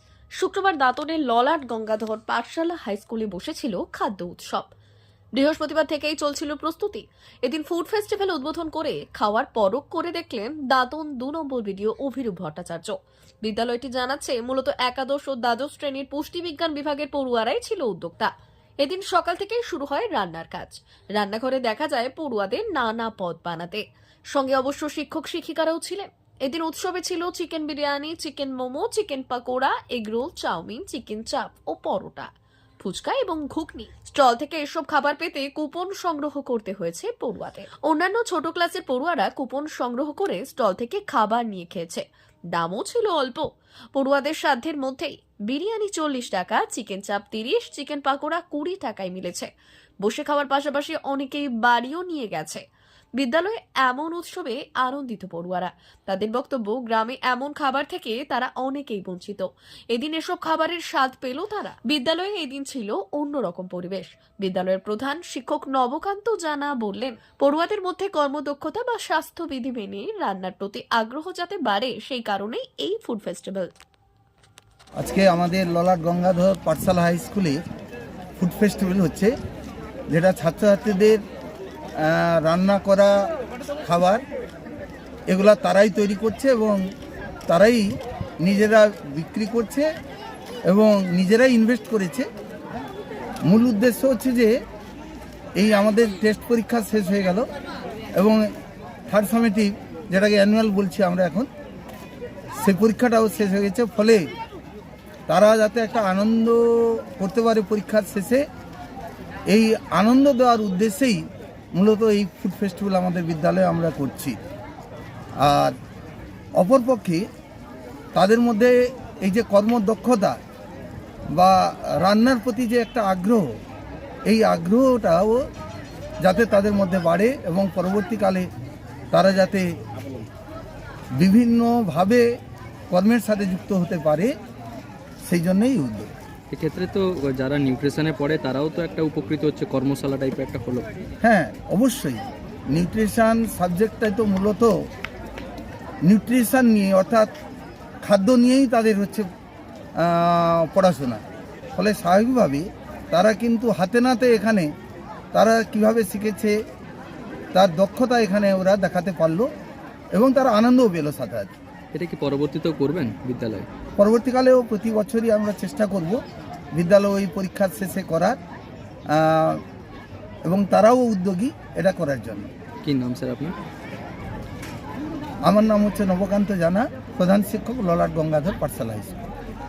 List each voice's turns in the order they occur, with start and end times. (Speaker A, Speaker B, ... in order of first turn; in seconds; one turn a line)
Speaker A: 0.4-4.7
Speaker A: 5.3-18.3
Speaker A: 18.8-49.5
Speaker A: 50.0-52.6
Speaker A: 53.2-73.7
Speaker B: 75.0-77.6
Speaker B: 78.4-79.3
Speaker B: 80.1-81.2
Speaker B: 82.0-83.1
Speaker B: 83.8-84.2
Speaker B: 85.3-86.8
Speaker B: 87.5-89.9
Speaker B: 90.7-92.3
Speaker B: 93.5-94.6
Speaker B: 95.5-97.5
Speaker B: 98.2-98.5
Speaker B: 99.1-101.5
Speaker B: 102.6-104.3
Speaker B: 105.3-108.4
Speaker B: 109.5-111.2
Speaker B: 111.7-114.4
Speaker B: 115.4-115.7
Speaker B: 116.6-117.2
Speaker B: 118.1-120.4
Speaker B: 121.3-123.5
Speaker B: 124.3-125.4
Speaker B: 126.2-128.5
Speaker B: 129.1-129.7
Speaker B: 131.2-132.2
Speaker B: 132.9-134.3
Speaker B: 135.2-136.1
Speaker C: 136.5-140.9
Speaker B: 141.2-144.7
Speaker B: 146.0-147.3
Speaker B: 148.0-149.2
Speaker B: 150.0-151.2
Speaker B: 151.8-154.7
Speaker B: 155.3-156.6
Speaker B: 157.5-159.5
Speaker B: 160.1-161.5
Speaker C: 161.9-163.7
Speaker B: 164.0-166.2
Speaker B: 166.8-168.4
Speaker B: 169.1-169.6
Speaker B: 170.5-172.5
Speaker C: 172.8-173.5
Speaker B: 175.5-179.2